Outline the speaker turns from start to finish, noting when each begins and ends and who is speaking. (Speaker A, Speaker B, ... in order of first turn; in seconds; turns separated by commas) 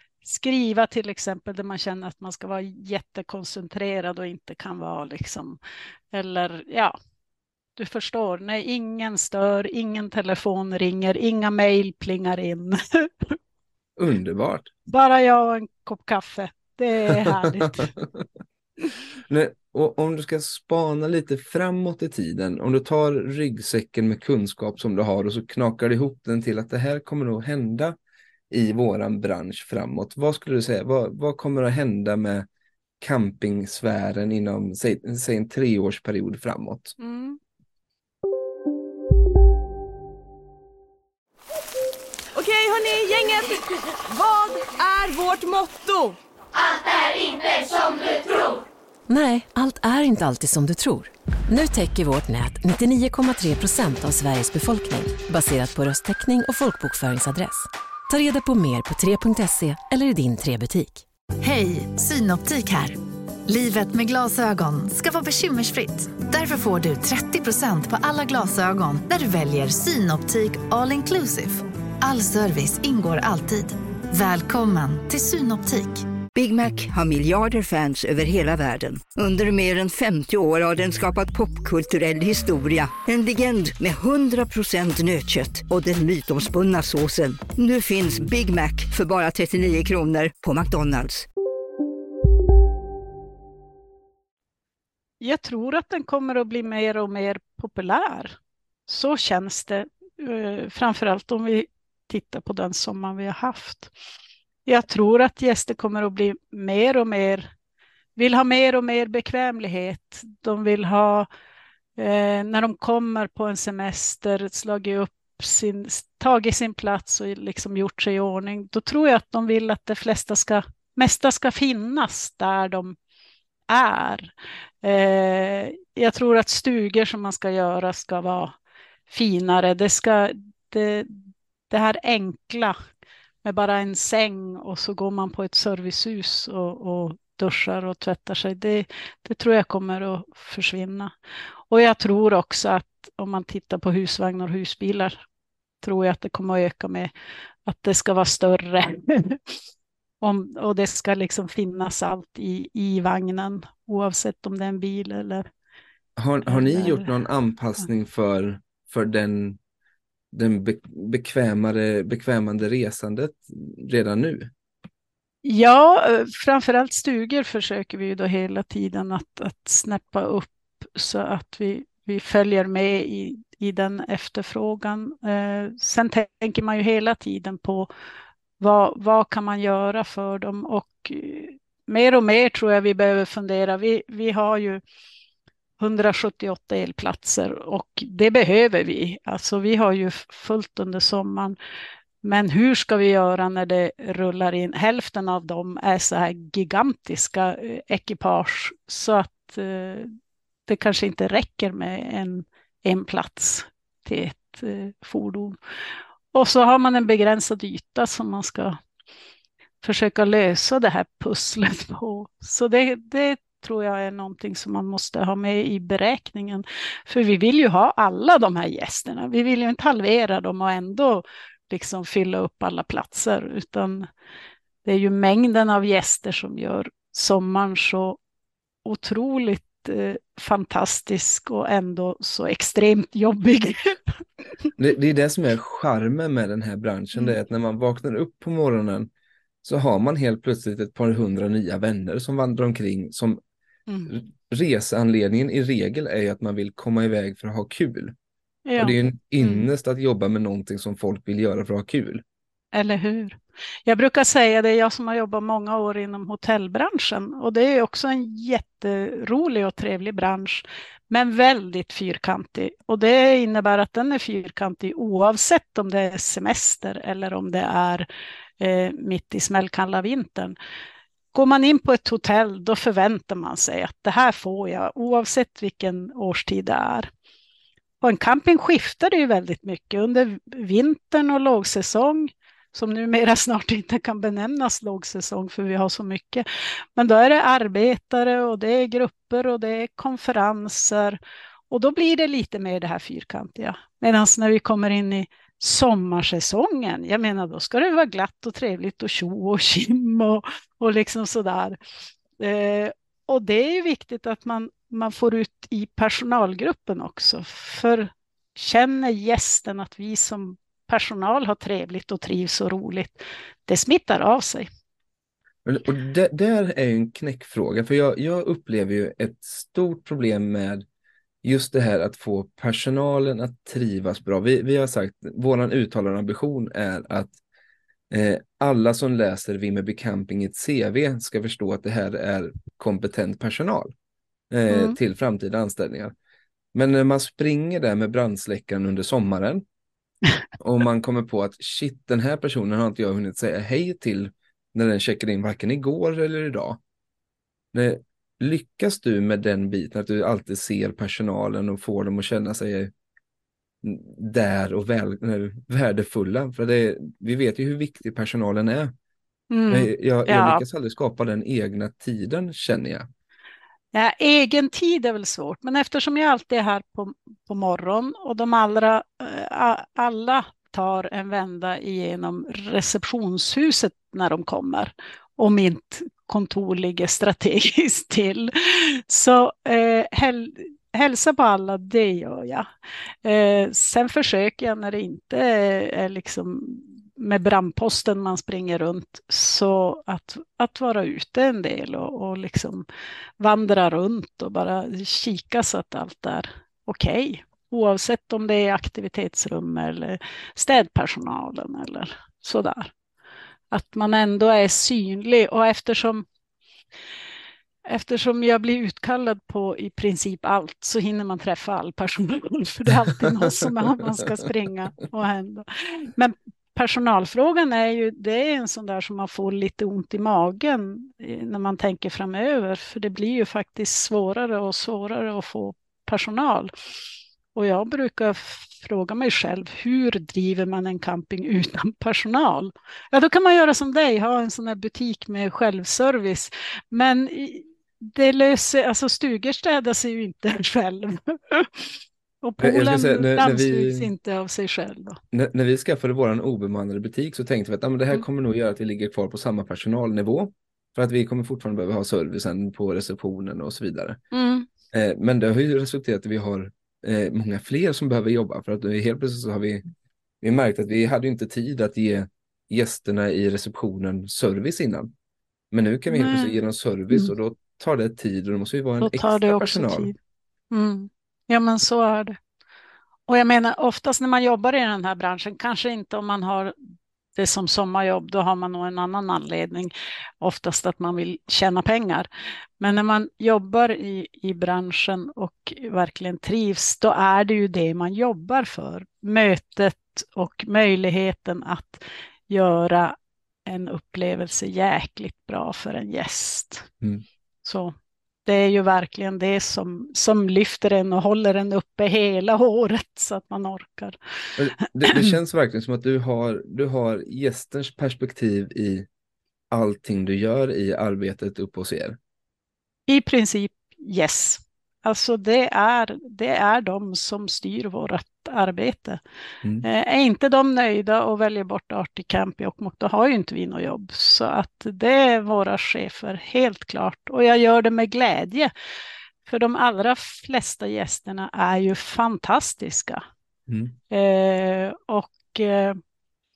Speaker A: 0.2-5.6, Speaker A: 6.1-6.9, Speaker A: 7.8-13.1, Speaker B: 14.0-14.7, Speaker A: 14.9-17.9, Speaker B: 17.9-18.3, Speaker B: 19.3-28.0, Speaker B: 28.5-32.5, Speaker B: 33.0-37.0, Speaker A: 37.0-37.4, Speaker C: 42.4-46.2, Speaker D: 49.1-61.0, Speaker E: 61.4-76.1, Speaker F: 76.3-91.3, Speaker A: 95.2-98.3, Speaker A: 98.9-103.9, Speaker A: 104.7-107.5, Speaker A: 108.2-111.3, Speaker A: 112.0-123.0, Speaker A: 123.7-124.3, Speaker A: 124.8-128.5, Speaker A: 129.1-131.1, Speaker A: 131.7-132.7, Speaker A: 133.4-141.1, Speaker A: 141.7-145.2, Speaker A: 145.8-147.1, Speaker A: 147.7-149.4, Speaker A: 150.2-155.4, Speaker B: 156.2-159.6, Speaker A: 156.5-157.1, Speaker B: 160.3-164.5, Speaker A: 165.4-177.9, Speaker A: 178.6-184.8, Speaker A: 185.8-191.6, Speaker A: 192.2-200.1, Speaker A: 200.7-205.6, Speaker A: 206.3-208.8, Speaker A: 209.8-224.1, Speaker A: 224.8-228.2, Speaker A: 228.8-233.7, Speaker B: 234.8-239.1, Speaker B: 239.6-243.4, Speaker B: 244.1-248.1, Speaker A: 248.7-249.7, Speaker B: 248.8-252.2, Speaker A: 252.7-268.1, Speaker A: 268.6-270.6, Speaker A: 271.3-277.1, Speaker A: 278.0-286.4, Speaker A: 287.0-291.2, Speaker A: 291.7-301.8, Speaker A: 302.4-314.7, Speaker B: 315.6-320.9, Speaker B: 321.4-327.4, Speaker B: 328.1-333.9, Speaker B: 334.5-336.1, Speaker A: 334.7-335.0, Speaker B: 336.7-339.6, Speaker B: 340.6-346.8, Speaker B: 347.7-352.9, Speaker B: 353.8-358.9, Speaker A: 359.5-360.6, Speaker B: 359.7-363.1, Speaker A: 363.9-382.6, Speaker A: 383.2-392.8, Speaker A: 393.4-402.9, Speaker A: 403.7-406.2, Speaker A: 407.9-426.7, Speaker A: 427.6-441.9, Speaker A: 442.4-445.2, Speaker B: 442.6-444.1, Speaker B: 445.3-454.2, Speaker A: 454.3-454.7, Speaker B: 454.9-459.9, Speaker B: 460.4-465.1, Speaker B: 465.7-470.1, Speaker A: 466.1-466.6, Speaker A: 469.0-470.2, Speaker A: 470.7-472.4, Speaker A: 473.3-476.7, Speaker A: 477.4-482.3, Speaker A: 482.8-493.1, Speaker A: 493.7-496.9, Speaker A: 497.6-497.9, Speaker A: 498.5-504.2, Speaker B: 504.6-509.1, Speaker B: 509.7-512.2, Speaker A: 513.1-519.2, Speaker A: 519.8-528.7, Speaker A: 529.5-533.2, Speaker B: 533.7-534.0, Speaker A: 534.1-536.0